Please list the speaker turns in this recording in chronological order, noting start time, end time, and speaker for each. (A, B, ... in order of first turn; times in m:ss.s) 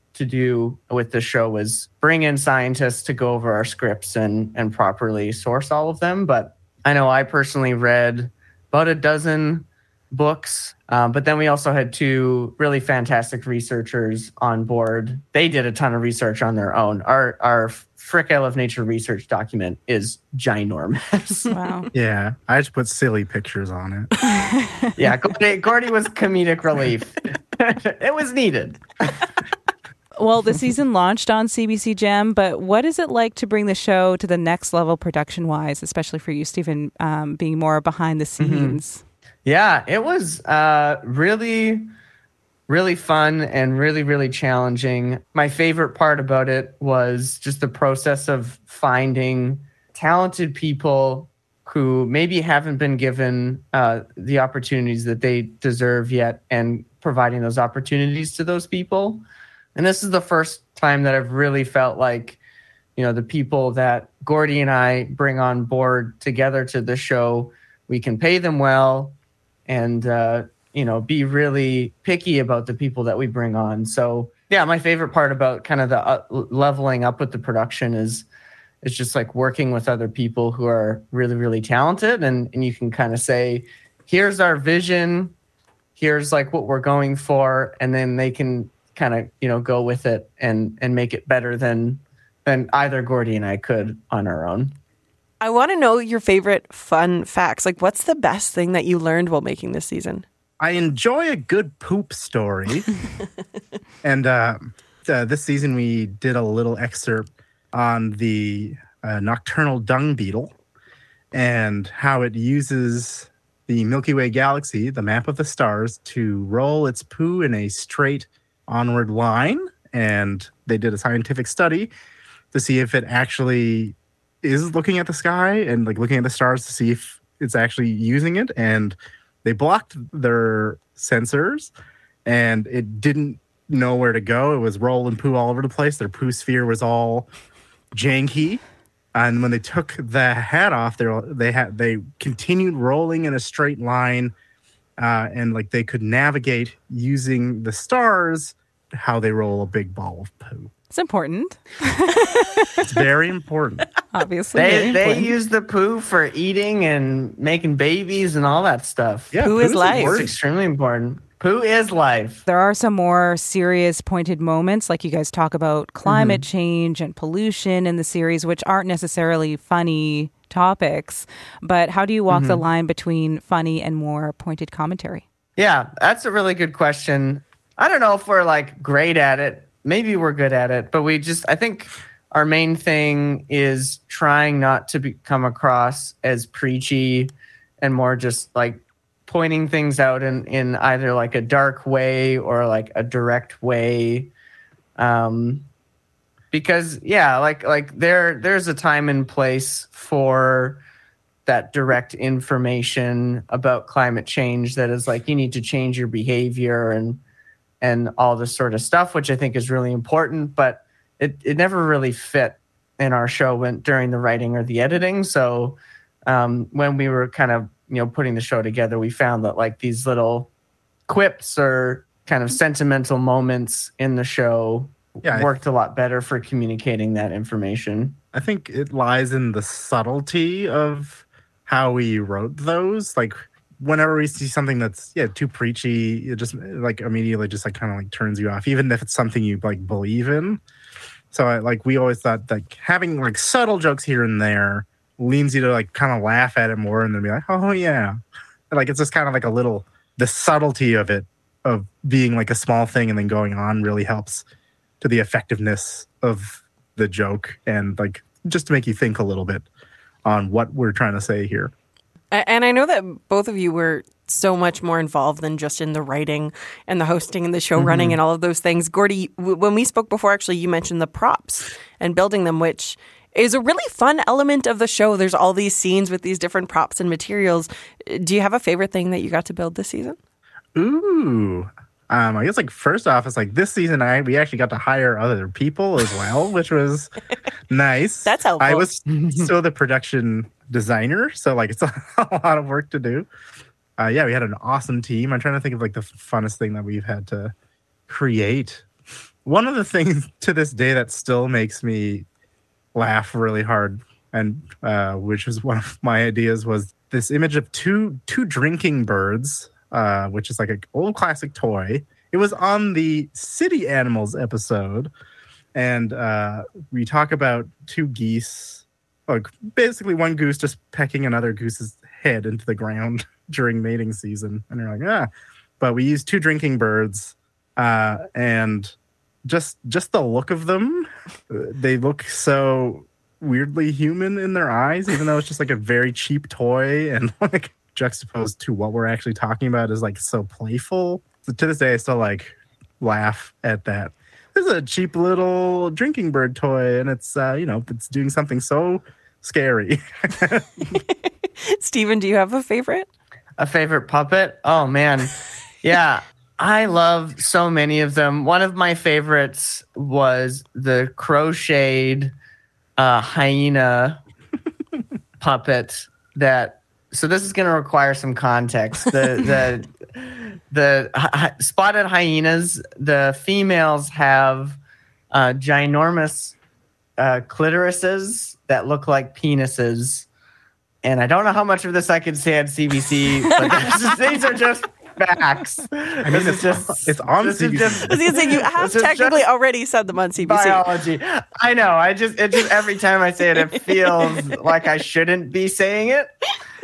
0:00.1-0:21.5 A
0:21.5-0:21.9 B
0:21.9-0:24.1 C
0:24.2-0:24.9 B
0:25.0-0:28.8 A
0:30.2-0:39.0 B
0:38.4-0:38.8 A
0:39.4-0:41.9 A
0:42.7-0:59.2 A
0:59.7-1:02.4 A
1:03.0-1:09.2 A
1:09.7-1:18.3 A
1:18.8-1:25.3 A
1:26.0-1:34.7 A
1:35.4-1:40.2 D
1:40.6-1:42.9 C
1:44.0-1:50.5 C
1:51.3-2:01.9 C
2:02.5-2:11.7 C
2:12.2-2:17.3 C
2:17.9-2:18.6 C
2:19.1-2:24.3 C
2:25.0-2:30.7 C
2:30.9-2:32.8 B
2:32.8-2:33.8 C
2:34.1-2:35.3 B
2:34.5-2:42.4 A
2:39.3-2:40.3 C
2:39.4-2:40.3 D
2:42.4-2:55.2 B
2:46.1-2:46.4 A
2:52.3-2:52.6 A
2:55.6-3:14.3 A
3:15.0-3:15.7 A
3:16.5-3:20.8 A
3:21.4-3:27.2 A
3:27.8-3:40.5 A
3:41.1-3:48.2 A
3:45.2-3:45.5 C
3:48.3-4:00.6 C
4:01.3-4:08.2 C
4:08.7-4:14.4 C
4:15.0-4:19.6 C
4:20.2-4:21.7 C
4:22.3-4:40.2 D
4:27.8-4:28.2 C
4:40.7-4:47.1 C
4:47.7-4:53.3 C
4:48.2-4:48.9 D
4:49.1-4:49.5 A
4:54.0-4:57.5 C
4:58.1-4:58.8 C
4:59.4-5:02.3 C
5:02.9-5:15.1 C
5:15.7-5:25.3 C
5:25.8-5:28.9 C
5:29.4-5:51.0 C
5:50.9-5:53.1 D
5:53.6-6:02.3 A
6:03.0-6:04.2 A
6:05.4-6:14.8 A
6:15.3-6:16.6 A
6:17.2-6:20.3 A
6:21.0-6:29.4 A
6:23.6-6:23.8 D
6:26.2-6:28.5 C
6:28.1-6:30.9 D
6:30.4-6:36.3 A